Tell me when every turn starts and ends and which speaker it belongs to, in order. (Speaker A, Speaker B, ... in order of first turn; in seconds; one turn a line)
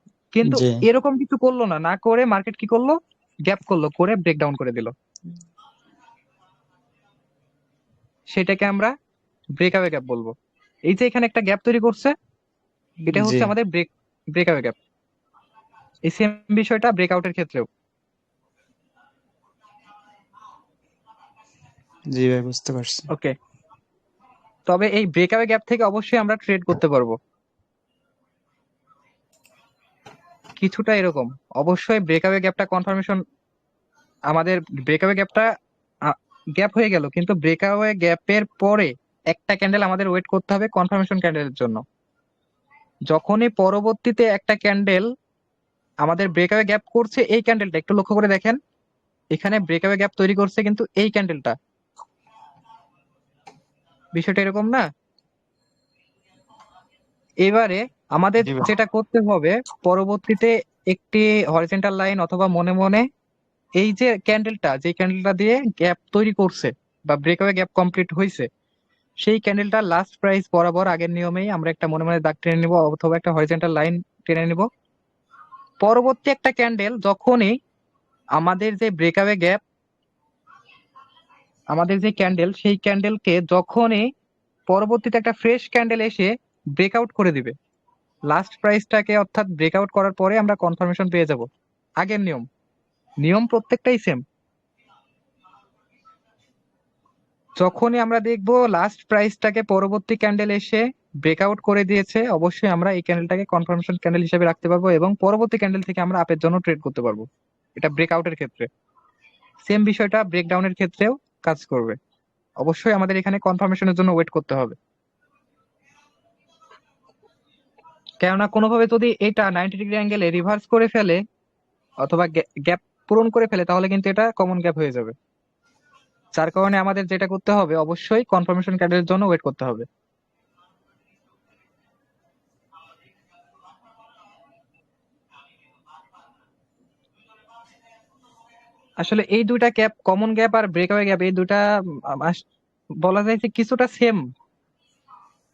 Speaker A: 0.3-4.9
Speaker B: 0.4-0.8
Speaker A: 8.3-8.9
Speaker A: 9.6-10.3
Speaker A: 10.9-12.1
Speaker B: 13.0-13.5
Speaker A: 13.1-14.7
Speaker A: 16.1-17.7
Speaker B: 22.1-23.1
Speaker A: 24.7-27.2
Speaker A: 30.6-33.2
Speaker A: 34.3-35.5
Speaker A: 36.0-41.8
Speaker A: 43.1-45.1
Speaker A: 46.0-48.6
Speaker A: 49.3-51.5
Speaker A: 54.1-54.9
Speaker A: 57.4-63.1
Speaker B: 58.4-58.7
Speaker A: 63.8-68.5
Speaker A: 69.2-74.7
Speaker A: 75.8-77.6
Speaker A: 78.3-79.6
Speaker A: 81.7-84.1
Speaker A: 84.7-87.5
Speaker A: 88.3-91.5
Speaker A: 92.0-92.5
Speaker A: 93.2-94.2
Speaker A: 97.6-108.7
Speaker A: 109.7-112.0
Speaker A: 112.6-114.8
Speaker A: 118.2-121.2
Speaker A: 122.0-125.1
Speaker A: 126.3-129.8
Speaker A: 139.0-141.6
Speaker A: 142.2-142.4
Speaker A: 143.0-144.2